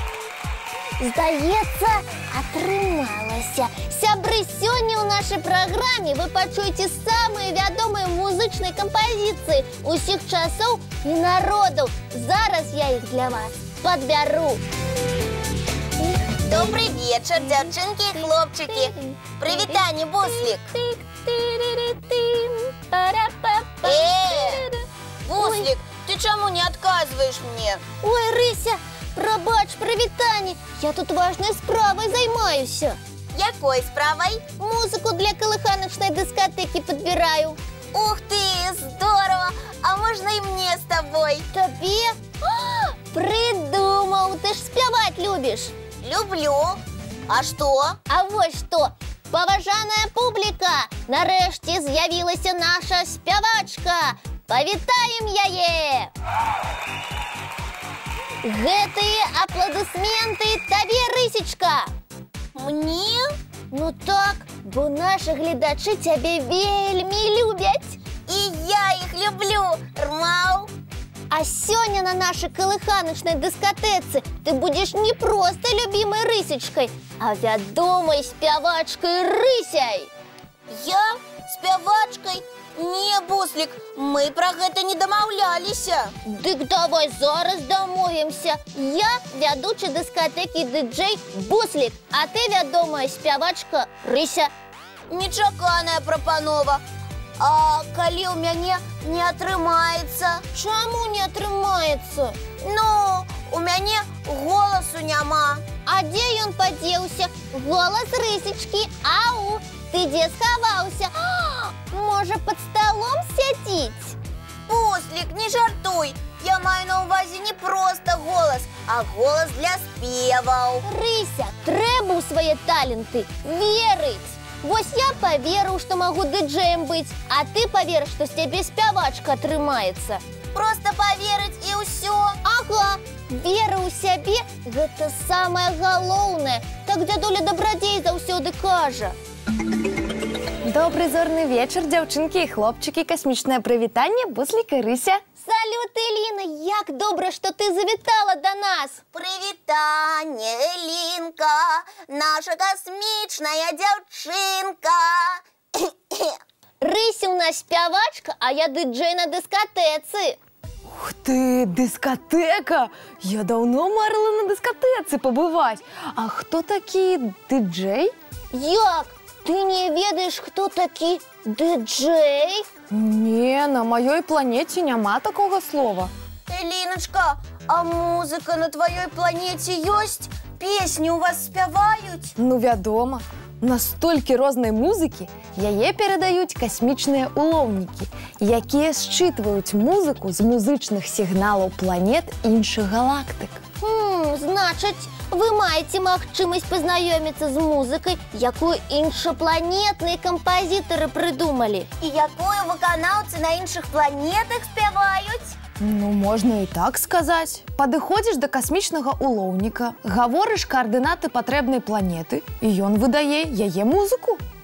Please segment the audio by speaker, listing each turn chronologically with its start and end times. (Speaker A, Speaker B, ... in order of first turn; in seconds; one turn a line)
Speaker A: 1.0-14.6
Speaker B: 16.4-20.7
Speaker A: 18.2-25.7
Speaker B: 23.9-24.6
Speaker B: 25.2-27.8
Speaker A: 28.0-33.0
Speaker B: 33.3-34.5
Speaker A: 34.6-37.6
Speaker B: 37.9-41.5
Speaker A: 41.5-45.8
Speaker B: 46.0-48.0
Speaker A: 48.1-56.1
Speaker A: 58.4-61.9
Speaker B: 62.5-63.3
Speaker A: 63.7-68.0
Speaker B: 68.3-70.7
Speaker A: 71.3-80.1
Speaker B: 80.7-86.1
Speaker A: 86.2-94.5
Speaker B: 95.1-96.8
Speaker B: 97.4-100.4
Speaker A: 100.5-102.4
Speaker B: 102.6-105.6
Speaker A: 105.8-114.2
Speaker B: 114.7-120.8
Speaker A: 120.8-130.2
Speaker B: 130.5-132.4
Speaker A: 132.4-139.2
Speaker C: 140.7-145.2
Speaker A: 145.4-149.0
Speaker B: 149.1-156.4
Speaker A: 156.8-160.4
Speaker C: 160.9-168.1
Speaker A: 168.5-172.7
Speaker C: 172.9-176.1
Speaker B: 176.5-182.3
Speaker C: 182.4-193.6
Speaker A: 193.8-201.9
Speaker B: 202.0-205.6
Speaker C: 205.8-214.4